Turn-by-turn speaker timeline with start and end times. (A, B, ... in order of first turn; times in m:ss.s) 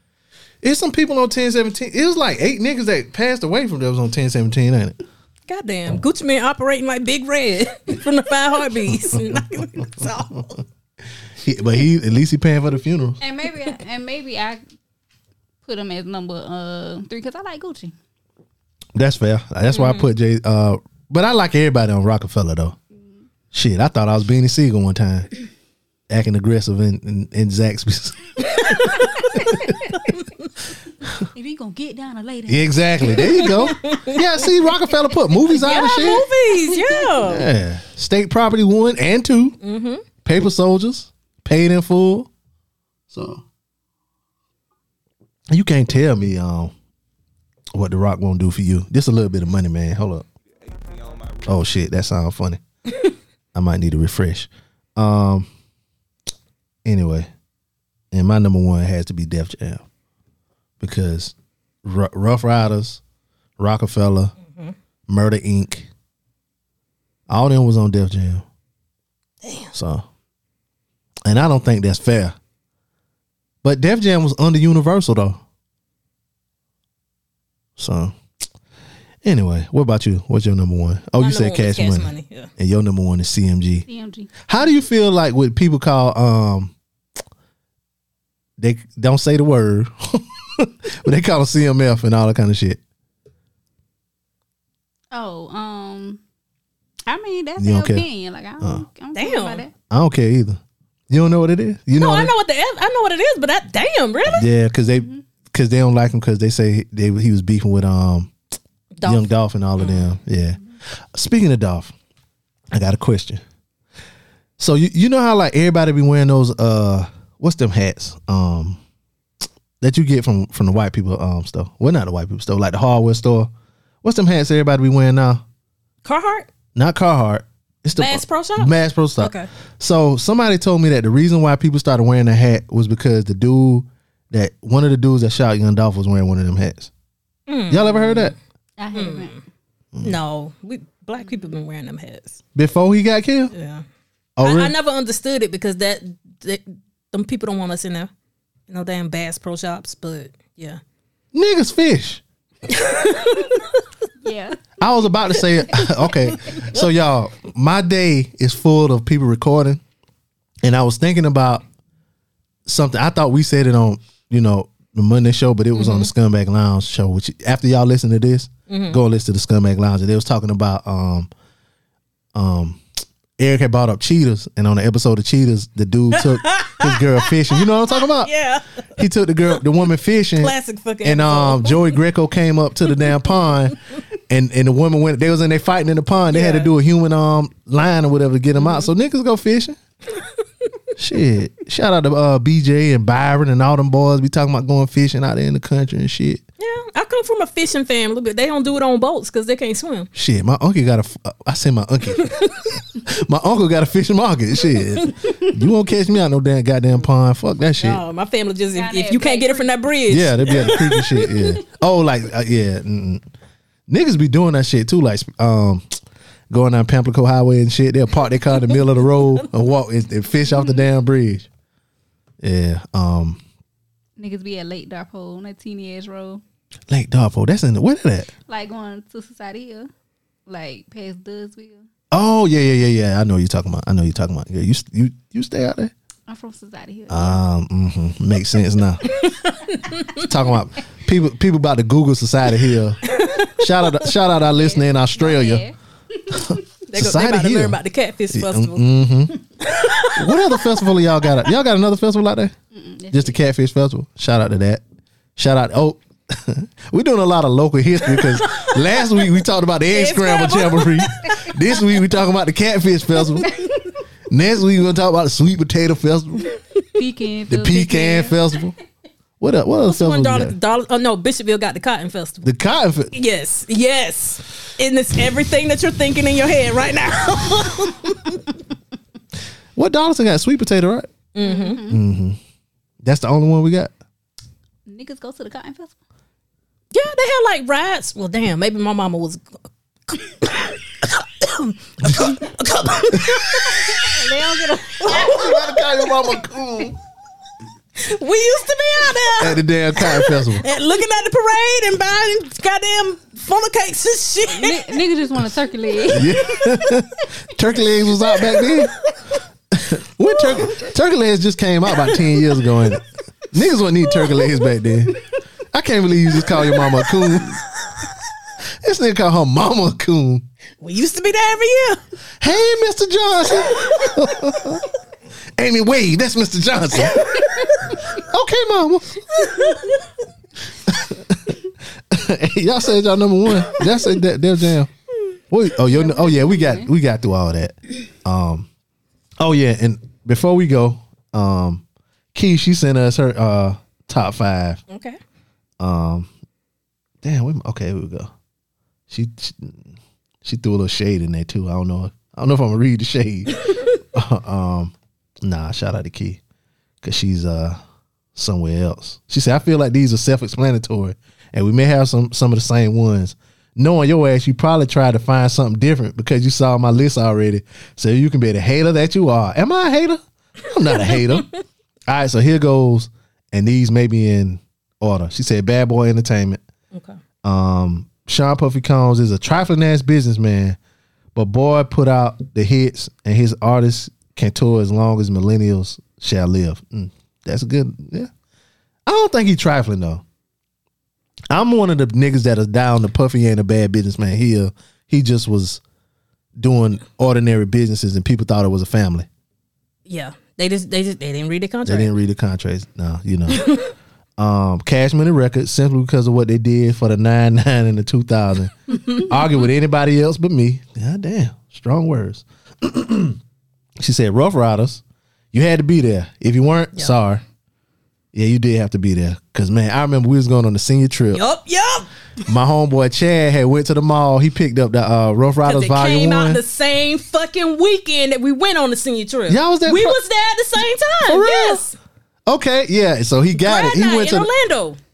0:00.6-0:05.0 A
0:05.5-0:10.6 B
0:09.1-0:09.4 A
0:11.4-0:13.2 A
0:13.2-0:14.6 C
0:15.6-0:17.9 C
0:19.0-0:22.8 A
0:19.7-0:20.1 B
0:23.5-0:25.3 A
0:26.1-0:29.7 A
0:28.4-0:29.2 B
0:29.0-0:29.8 C
0:30.0-0:30.4 B
0:31.3-0:33.6 C
0:32.5-0:36.3 A
0:33.2-0:34.5 B
0:35.5-0:37.5 B
0:35.5-0:37.2 C
0:37.2-0:39.6 A
0:39.6-0:40.0 B
0:40.2-0:42.3 A
0:43.1-0:43.4 A
0:45.5-0:46.7 A
0:47.7-0:50.3 A
0:51.4-0:52.6 A
0:53.5-0:55.5 A
0:56.8-0:57.3 A
0:58.1-0:59.8 A
1:00.8-1:03.0 A
1:03.6-1:04.3 A
1:04.5-1:04.8 B
1:05.1-1:05.9 A
1:07.3-1:08.4 A
1:09.4-1:09.7 B
1:09.7-1:10.0 A
1:11.3-1:12.4 A
1:13.6-1:15.4 A
1:17.8-1:18.1 A
1:19.2-1:23.8 A
1:21.2-1:22.5 B
1:23.9-1:24.4 C
1:24.5-1:26.7 A
1:28.6-1:32.8 A
1:35.1-1:36.2 C
1:37.1-1:39.7 C
1:37.6-1:38.1 A
1:39.2-1:39.6 B
1:39.9-1:42.3 A
1:42.0-1:44.5 B
1:44.3-1:48.3 A
1:49.0-1:50.1 B
1:49.0-1:50.6 A
1:51.1-1:51.9 A
1:52.7-1:53.4 A
1:54.6-1:58.8 A
1:59.8-2:03.5 A
2:04.0-2:05.4 A
2:06.0-2:06.5 B
2:06.8-2:16.9 A
2:08.0-2:09.5 B
2:17.5-2:18.4 B
2:17.7-2:18.3 A
2:18.8-2:19.4 C
2:18.9-2:19.4 B
2:20.0-2:22.4 B
2:22.6-2:23.5 A
2:23.5-2:23.8 B
2:24.4-2:24.7 A
2:24.4-2:28.1 B
2:28.7-2:30.8 B
2:31.3-2:32.2 A
2:32.7-2:33.8 B
2:34.2-2:34.6 C
2:34.8-2:39.8 A
2:36.5-2:36.9 B
2:40.6-2:41.6 A
2:42.7-2:51.3 A
2:45.7-2:46.1 B
2:48.7-2:49.0 B
2:52.3-2:52.8 A
2:53.4-2:58.3 A
2:56.1-2:58.9 B
2:59.0-3:03.8 A
2:59.5-3:02.0 B
3:04.3-3:09.8 A
3:06.3-3:06.7 B
3:08.6-3:08.9 B
3:11.0-3:16.4 A
3:16.6-3:20.1 B
3:20.2-3:22.3 A
3:22.2-3:22.6 B
3:23.0-3:28.0 A
3:27.8-3:31.4 B
3:28.7-3:29.8 C
3:30.1-3:33.2 A
3:33.9-3:35.9 A
3:36.5-3:41.5 A
3:42.4-3:43.4 A
3:44.2-3:46.4 C
3:46.9-3:48.3 A
3:48.5-3:49.9 C
3:50.5-3:51.9 C
3:52.1-3:55.9 A
3:56.3-3:57.4 C
3:57.1-3:59.0 A
3:59.0-4:00.2 B
4:00.2-4:03.0 A
4:03.0-4:04.1 B
4:03.6-4:05.6 A
4:04.4-4:06.6 C
4:06.3-4:07.8 A
4:06.9-4:08.9 B
4:08.3-4:09.3 A
4:09.6-4:11.5 B
4:10.2-4:12.5 A
4:12.7-4:13.4 C
4:13.1-4:14.8 A
4:15.4-4:23.5 A
4:18.1-4:19.3 B
4:19.9-4:21.8 B
4:23.4-4:23.7 C
4:24.3-4:26.5 A
4:27.0-4:28.6 C
4:27.5-4:28.8 A
4:29.4-4:30.6 A
4:29.9-4:32.5 B
4:32.4-4:33.1 A
4:33.1-4:38.5 B
4:39.8-4:41.1 A
4:41.3-4:41.8 B
4:41.4-4:42.0 C
4:41.9-4:42.4 A
4:43.0-4:43.9 A
4:44.9-4:46.0 C
4:46.9-4:49.5 B
4:50.1-4:56.4 B
4:52.0-4:52.3 A
4:53.1-4:53.4 A
4:53.5-4:55.6 C
4:55.1-4:57.0 A
4:58.0-5:05.0 B
4:59.4-5:00.6 A
5:04.5-5:06.9 C
5:06.1-5:08.9 A
5:08.3-5:08.9 B
5:09.7-5:17.6 A
5:11.9-5:12.3 B
5:16.5-5:18.1 B
5:18.8-5:20.4 A
5:20.8-5:22.0 B
5:22.4-5:24.9 A
5:23.6-5:24.2 B
5:25.6-5:29.2 A
5:27.1-5:28.0 B
5:29.4-5:30.0 B
5:30.9-5:34.9 A
5:35.5-5:38.7 A
5:35.9-5:36.9 C
5:39.4-5:41.8 A
5:42.3-5:44.8 A
5:44.9-5:45.2 B
5:45.8-5:46.3 A
5:47.2-5:48.3 A
5:49.1-5:49.9 A
5:50.4-5:56.4 A
5:57.0-5:57.8 A
5:58.4-6:11.5 A
6:11.0-6:11.5 B
6:12.1-6:16.6 A
6:16.9-6:17.2 B
6:17.4-6:20.8 A
6:21.4-6:28.3 A
6:29.1-6:30.2 A
6:31.5-6:35.8 A
6:36.6-6:39.3 A
6:40.1-6:42.1 B
6:41.9-6:43.7 A
6:43.5-6:43.9 B
6:44.4-6:53.4 A
6:54.0-6:55.0 A
6:55.5-6:57.4 A
6:58.3-7:01.4 A
7:01.3-7:02.1 B
7:02.4-7:06.6 A
7:05.6-7:12.0 B
7:09.5-7:10.2 A
7:11.3-7:11.8 A
7:12.5-7:14.5 A
7:13.6-7:15.0 B